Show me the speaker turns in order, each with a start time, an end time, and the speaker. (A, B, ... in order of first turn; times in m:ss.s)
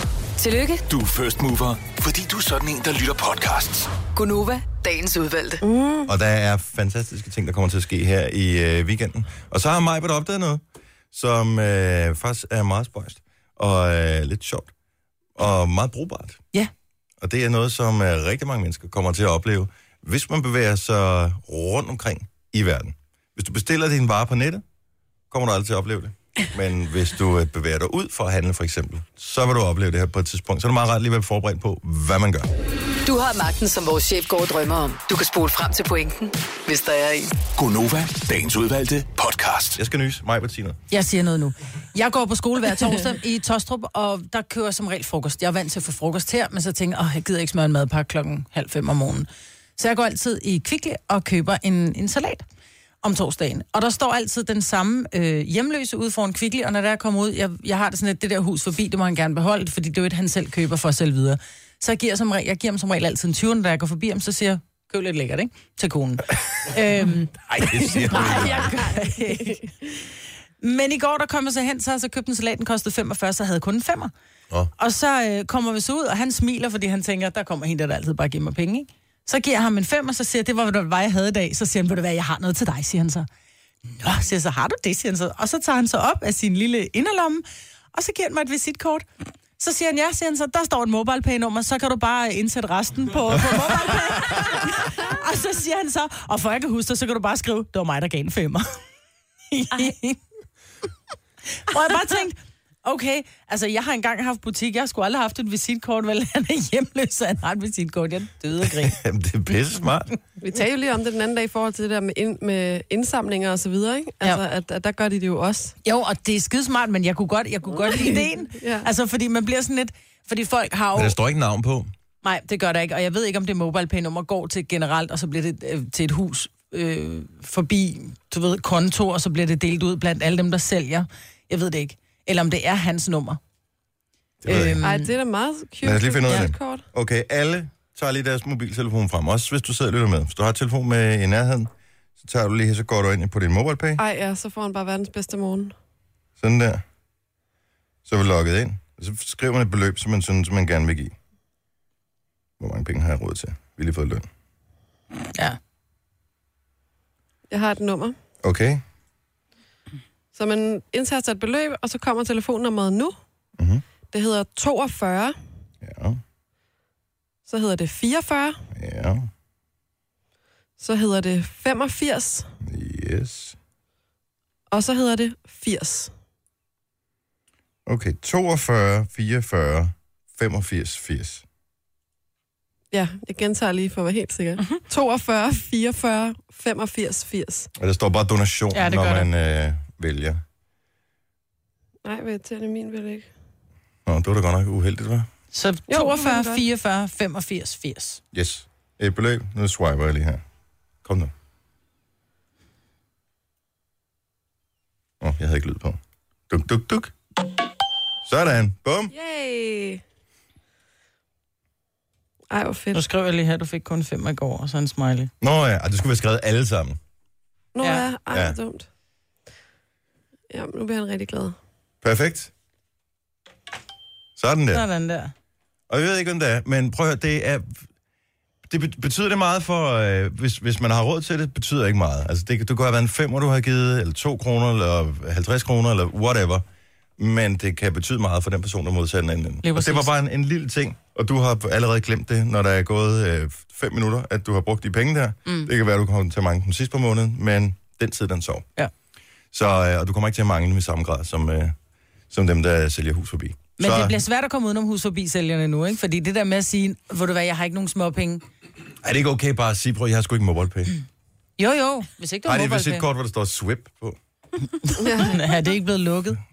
0:00.4-0:00.8 A
0:00.9-0:03.9 B
0:04.1-0:05.6 A
0:05.6-0:06.1 C
0:06.1-0:14.7 D
0:15.4-0:16.4 D
0:17.2-0:24.6 D
0:25.3-0:32.5 D
0:33.0-0:37.3 A
0:37.6-0:39.8 B
0:39.8-0:40.8 D
0:40.9-0:52.4 E
0:53.0-1:09.7 E
1:07.5-1:08.8 D
1:08.1-1:09.6 C
1:10.6-1:14.1 E
1:14.8-1:23.3 E
1:24.0-1:29.0 E
1:29.6-1:38.8 E
1:39.5-1:40.2 E
1:41.7-1:49.0 E
1:48.6-1:50.2 D
1:50.4-1:55.7 C
1:55.8-2:01.2 E
1:57.7-1:58.9 C
2:01.0-2:01.9 D
2:02.2-2:13.4 E
2:14.4-2:14.8 D
2:14.4-2:15.1 E
2:14.5-2:16.8 C
2:15.8-2:21.7 D
2:22.2-2:24.0 D
2:24.0-2:25.7 C
2:26.4-2:26.8 D
2:28.1-2:31.2 D
2:32.6-2:34.3 D
2:37.5-2:38.2 C
2:38.4-2:38.8 D
2:40.3-2:43.2 C
2:43.6-2:43.8 D
2:44.1-2:45.4 C
2:45.8-2:46.2 D
2:47.5-2:48.6 C
2:48.7-2:49.3 D
2:50.8-2:52.5 C
2:52.6-2:53.6 D
2:54.7-2:56.1 C
2:57.9-3:01.4 D
3:02.9-3:07.7 C
3:07.8-3:10.4 D
3:08.7-3:09.3 E
3:12.0-3:13.3 C
3:14.1-3:15.3 D
3:15.5-3:18.2 E
3:15.9-3:16.6 C
3:18.3-3:20.4 D
3:21.0-3:21.3 D
3:25.2-3:26.0 D
3:26.5-3:27.2 D
3:28.2-3:29.1 D
3:29.1-3:30.0 C
3:32.5-3:33.0 C
3:32.9-3:35.3 E
3:35.4-3:37.0 D
3:37.8-3:38.9 C
3:37.8-3:38.1 E
3:38.3-3:38.6 D
3:40.5-3:41.6 C
3:42.0-3:42.5 D
3:44.4-3:44.8 D
3:44.7-3:45.3 E
3:45.9-3:47.7 D
3:48.7-3:56.6 D
3:57.2-4:08.7 D
3:59.6-4:00.1 E
4:09.5-4:11.8 D
4:12.3-4:14.2 D
4:13.8-4:18.4 E
4:19.0-4:21.0 D
4:21.6-4:23.1 E
4:22.4-4:24.2 D
4:24.8-4:26.4 E
4:25.0-4:25.4 C